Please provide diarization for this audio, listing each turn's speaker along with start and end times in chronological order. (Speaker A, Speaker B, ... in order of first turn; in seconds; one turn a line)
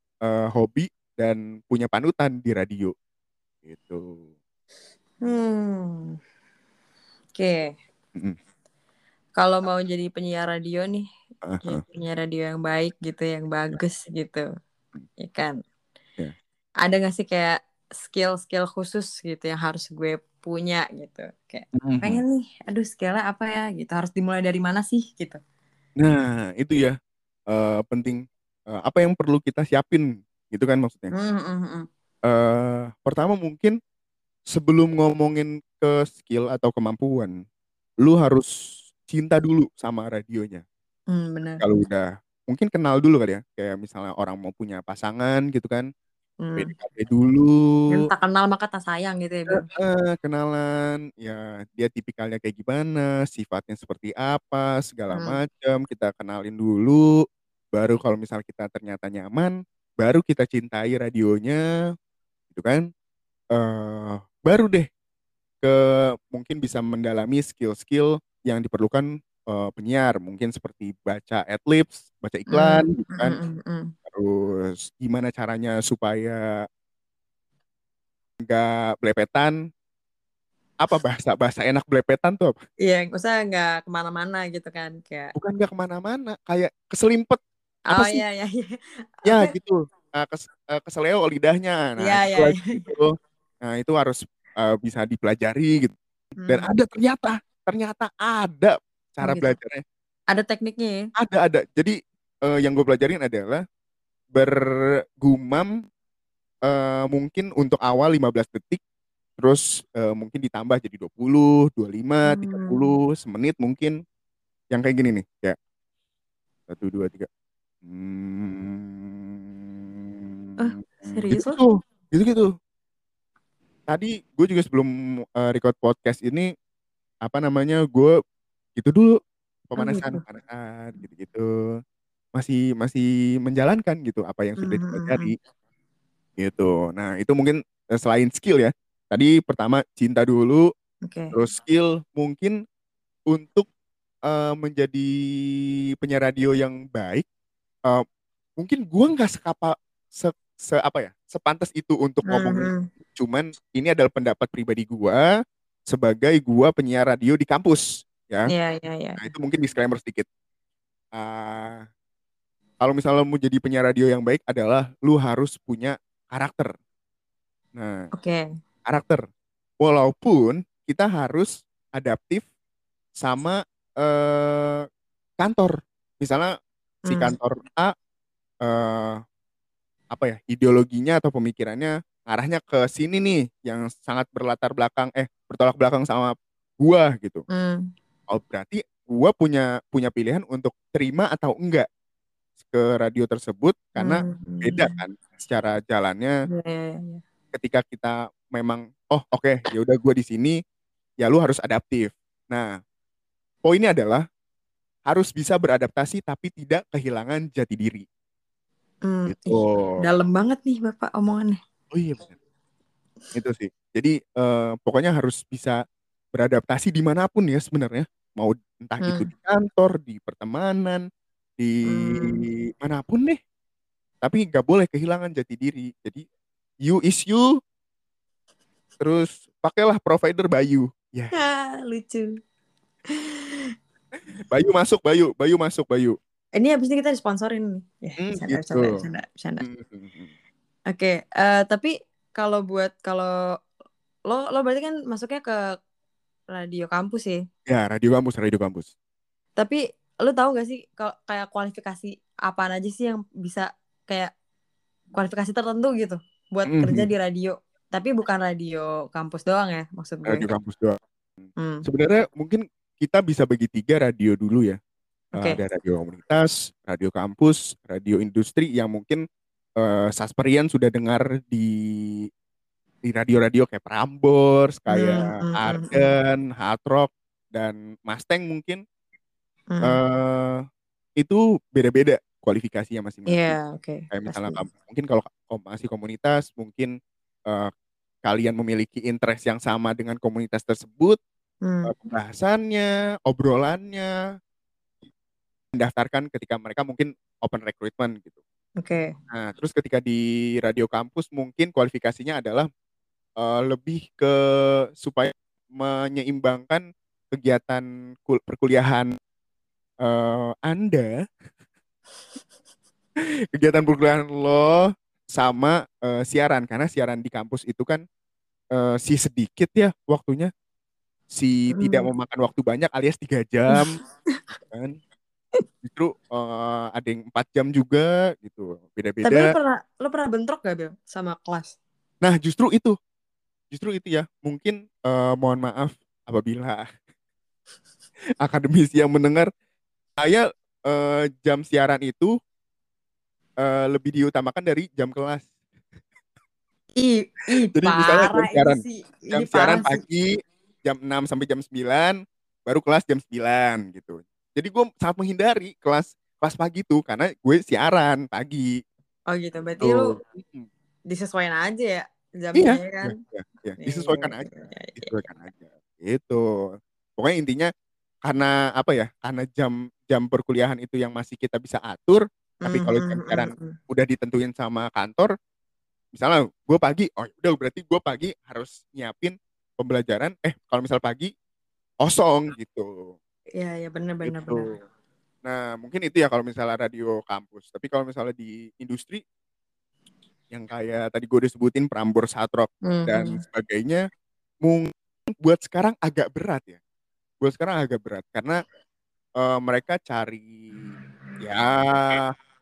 Speaker A: 0.2-2.9
Speaker A: 3.6-4.2
Speaker B: 5.2-6.2
Speaker B: 7.3-7.7
Speaker B: 9.4-11.1
Speaker A: 11.4-11.8
Speaker B: 11.6-14.5
Speaker B: 15.2-15.6
Speaker B: 16.8-25.4
Speaker A: 21.8-22.2
Speaker A: 26.0-26.9
Speaker A: 27.5-31.1
Speaker B: 31.1-31.9
Speaker A: 32.3-33.8
Speaker A: 34.5-37.3
Speaker A: 38.0-38.5
Speaker A: 39.0-40.6
Speaker B: 41.1-41.6
Speaker A: 41.6-45.9
Speaker B: 46.4-46.7
Speaker A: 46.6-48.0
Speaker B: 47.9-49.6
Speaker A: 49.5-57.1
Speaker B: 55.1-55.4
Speaker A: 57.7-61.6
Speaker A: 62.5-62.9
Speaker A: 63.5-64.9
Speaker A: 65.6-73.4
Speaker B: 72.5-73.9
Speaker A: 74.1-76.5
Speaker A: 78.4-79.5
Speaker A: 80.8-82.6
Speaker B: 82.8-85.3
Speaker A: 85.4-87.4
Speaker B: 87.9-89.5
Speaker A: 87.9-88.2
Speaker A: 89.2-96.0
Speaker B: 92.0-92.9
Speaker B: 96.4-96.7
Speaker A: 96.5-99.8
Speaker B: 99.2-99.5
Speaker B: 100.3-101.0
Speaker A: 101.2-103.6
Speaker A: 104.3-104.6
Speaker A: 105.2-105.7
Speaker A: 106.7-108.8
Speaker A: 109.4-114.0
Speaker B: 112.3-112.9
Speaker A: 114.7-115.6
Speaker A: 116.7-117.3
Speaker A: 117.8-120.3
Speaker B: 120.6-121.6
Speaker A: 121.3-122.5
Speaker A: 123.9-126.5
Speaker A: 127.2-128.2
Speaker A: 128.8-129.2
Speaker A: 129.7-131.5
Speaker B: 129.8-130.2
Speaker A: 132.3-135.3
Speaker B: 134.6-135.3
Speaker A: 136.4-140.7
Speaker B: 141.1-141.3
Speaker A: 141.3-142.6
Speaker A: 143.3-143.7
Speaker A: 144.2-145.1
Speaker A: 146.0-147.2
Speaker A: 148.6-155.3
Speaker B: 152.3-152.8
Speaker A: 155.9-158.5
Speaker B: 158.5-159.2
Speaker A: 159.2-160.3
Speaker A: 161.1-161.8
Speaker A: 162.8-166.7
Speaker A: 167.8-168.1
Speaker B: 168.2-168.4
Speaker A: 168.9-169.2
Speaker A: 169.8-172.4
Speaker A: 173.2-174.8
Speaker A: 175.4-176.5
Speaker B: 177.1-177.3
Speaker A: 177.1-177.9
Speaker A: 178.6-179.2
Speaker A: 180.1-187.4
Speaker B: 187.5-187.9
Speaker A: 188.3-191.9
Speaker A: 192.6-196.3
Speaker B: 194.0-195.0
Speaker B: 196.5-197.2
Speaker A: 197.5-200.6
Speaker A: 201.2-202.7
Speaker A: 203.7-204.2
Speaker A: 205.1-208.0
Speaker B: 209.1-211.6
Speaker A: 209.2-210.0
Speaker A: 211.9-212.3
Speaker A: 213.3-215.8
Speaker A: 216.3-221.0
Speaker B: 219.0-219.3
Speaker A: 221.6-223.4
Speaker B: 221.9-222.4
Speaker A: 224.2-226.2
Speaker A: 226.8-227.5
Speaker A: 229.0-231.3
Speaker B: 231.3-232.3
Speaker B: 233.1-233.6
Speaker A: 234.5-236.2
Speaker B: 236.6-239.6
Speaker A: 238.2-239.0
Speaker A: 239.6-240.3
Speaker B: 240.9-243.3
Speaker B: 244.3-245.8
Speaker B: 246.5-247.4
Speaker A: 247.7-248.9
Speaker B: 249.6-254.3
Speaker B: 255.1-260.5
Speaker A: 256.7-257.1
Speaker A: 260.2-261.0
Speaker B: 261.6-261.9
Speaker A: 261.8-264.8
Speaker B: 265.3-265.6
Speaker A: 265.3-269.2
Speaker A: 269.8-272.3
Speaker A: 273.0-278.8
Speaker B: 274.9-276.1
Speaker B: 279.7-280.0
Speaker A: 279.8-280.6
Speaker A: 281.2-283.6
Speaker B: 283.3-284.7
Speaker A: 284.1-286.9
Speaker A: 288.2-291.2
Speaker B: 291.7-291.9
Speaker A: 291.9-294.1
Speaker A: 295.7-298.4
Speaker B: 298.8-299.1
Speaker A: 299.3-302.7
Speaker A: 303.4-309.1
Speaker A: 310.0-311.1
Speaker A: 313.5-318.0
Speaker A: 318.7-320.5
Speaker A: 321.3-323.9
Speaker B: 321.7-322.1
Speaker A: 324.7-325.0
Speaker A: 325.8-329.5
Speaker B: 329.2-331.8
Speaker A: 332.2-332.9
Speaker A: 333.7-336.8
Speaker A: 338.4-339.5
Speaker A: 340.2-342.3
Speaker A: 343.6-345.5
Speaker B: 347.0-350.0
Speaker A: 347.7-348.8
Speaker A: 349.3-350.3
Speaker A: 350.8-358.8
Speaker B: 359.3-360.1
Speaker A: 359.8-360.7
Speaker B: 361.1-363.1
Speaker A: 362.5-364.5
Speaker B: 363.8-365.1
Speaker A: 365.0-366.4
Speaker A: 367.2-367.7
Speaker A: 368.2-375.3
Speaker B: 372.6-373.8
Speaker A: 376.1-381.3
Speaker A: 382.0-383.1
Speaker B: 383.6-384.6
Speaker A: 384.2-384.7
Speaker A: 385.4-389.2
Speaker A: 390.5-394.0
Speaker B: 392.9-393.4
Speaker A: 394.6-396.8
Speaker A: 397.4-398.6
Speaker A: 399.4-400.6
Speaker A: 401.4-402.3